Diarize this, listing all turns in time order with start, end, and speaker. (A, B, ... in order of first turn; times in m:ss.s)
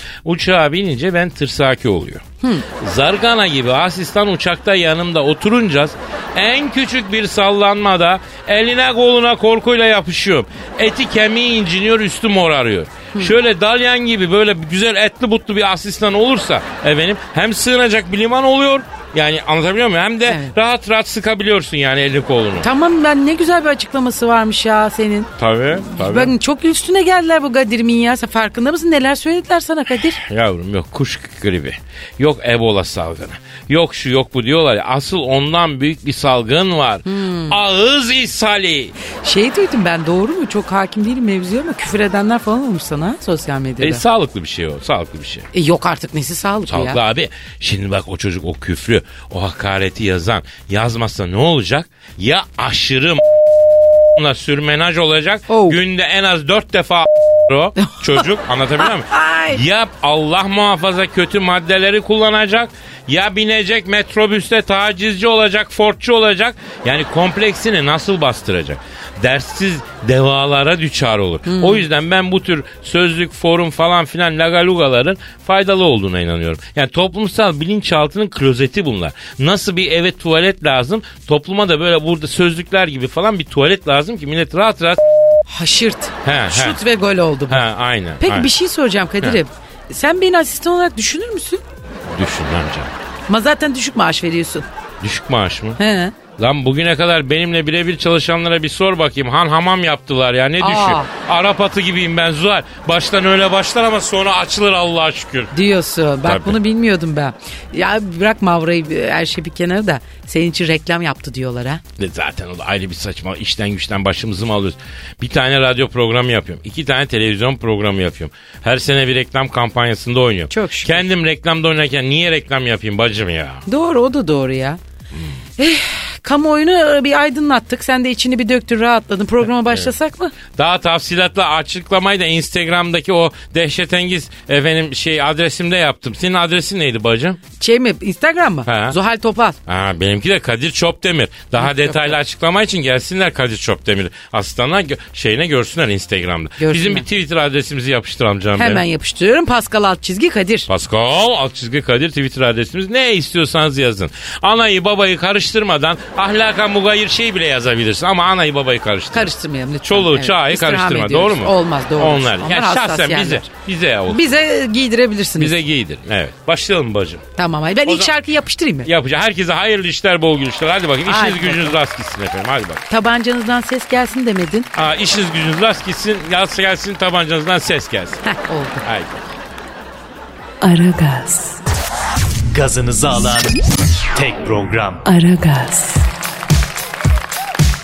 0:00.2-0:22.7 A
0:02.4-0:02.6 B
0:13.1-0:13.4 B
0:20.3-0:20.5 B
0:22.6-0:30.2 B
0:25.4-0:26.3 A
0:30.2-0:38.9 A
0:37.0-0:37.6 B
0:39.2-0:44.0 B
0:43.8-0:45.5 A
0:45.5-0:47.0 B
0:46.7-0:53.2 A
0:54.2-1:25.0 A
0:55.5-0:55.8 B
0:57.8-0:58.2 B
0:58.8-0:59.6 B
1:11.4-1:11.8 B
1:25.5-1:27.6 B
1:26.2-1:26.8 A
1:27.5-1:28.5 A
1:28.2-1:31.6 B
1:32.1-1:32.9 A
1:33.3-1:34.6 B
1:35.0-1:35.8 A
1:35.8-1:36.1 B
1:36.4-1:45.5 A
1:40.6-1:41.1 B
1:45.5-1:51.8 B
1:46.2-1:46.6 A
1:52.0-2:03.6 A
2:00.5-2:01.0 B
2:03.7-2:04.8 B
2:05.6-2:10.3 B
2:09.4-2:09.9 A
2:10.5-2:17.4 A
2:17.6-2:19.6 B
2:18.6-2:19.0 A
2:19.7-2:28.8 A
2:21.6-2:22.1 B
2:26.6-2:27.0 B
2:28.6-2:30.7 B
2:30.7-2:39.3 A
2:39.1-2:43.5 B
2:39.8-2:44.3 A
2:44.1-2:45.5 B
2:45.4-2:47.2 A
2:47.4-2:48.9 B
2:47.8-2:48.1 A
2:48.8-2:52.8 A
2:51.0-2:51.8 B
2:52.9-2:54.7 B
2:54.7-2:58.2 A
2:58.2-2:58.8 B
2:58.8-2:59.3 A
3:00.6-3:01.6 C
3:02.5-3:03.6 D
3:04.1-3:05.0 D
3:05.0-3:06.0 C